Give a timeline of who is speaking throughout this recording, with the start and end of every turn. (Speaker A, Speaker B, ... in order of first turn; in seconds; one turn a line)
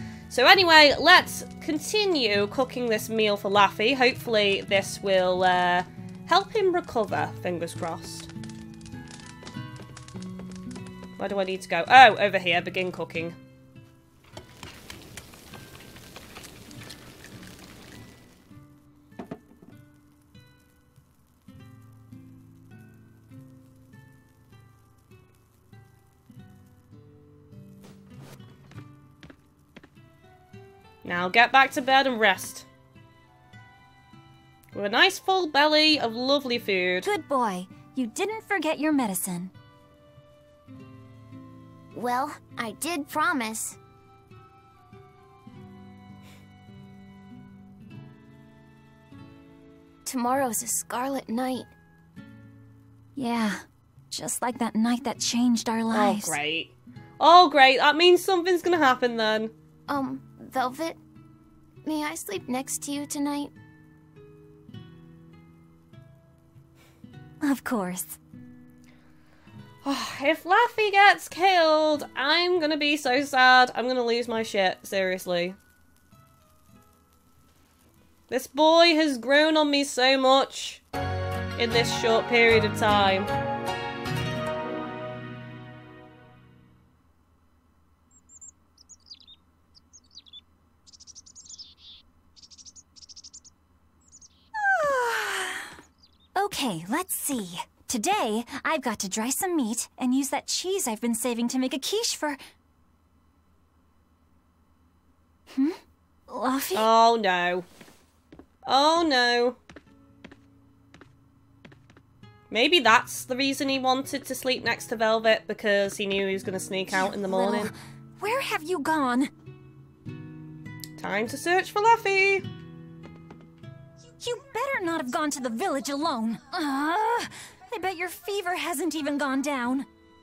Speaker A: 0.3-8.3
Speaker A: 11.2-13.3
Speaker A: 31.0-32.7
Speaker A: 34.7-37.1
Speaker B: 37.0-39.5
Speaker C: 41.9-43.8
Speaker C: 50.0-51.7
Speaker B: 53.1-56.4
Speaker A: 55.9-59.5
Speaker C: 59.9-61.0
Speaker C: 61.8-63.5
Speaker B: 67.4-68.2
Speaker A: 69.8-75.6
Speaker A: 78.3-80.8
Speaker A: 81.6-83.3
Speaker B: 94.6-95.7
Speaker B: 96.3-102.4
Speaker B: 105.5-106.9
Speaker A: 106.7-107.7
Speaker A: 108.7-109.6
Speaker A: 112.5-117.7
Speaker B: 116.9-119.3
Speaker A: 121.0-122.5
Speaker B: 124.1-129.9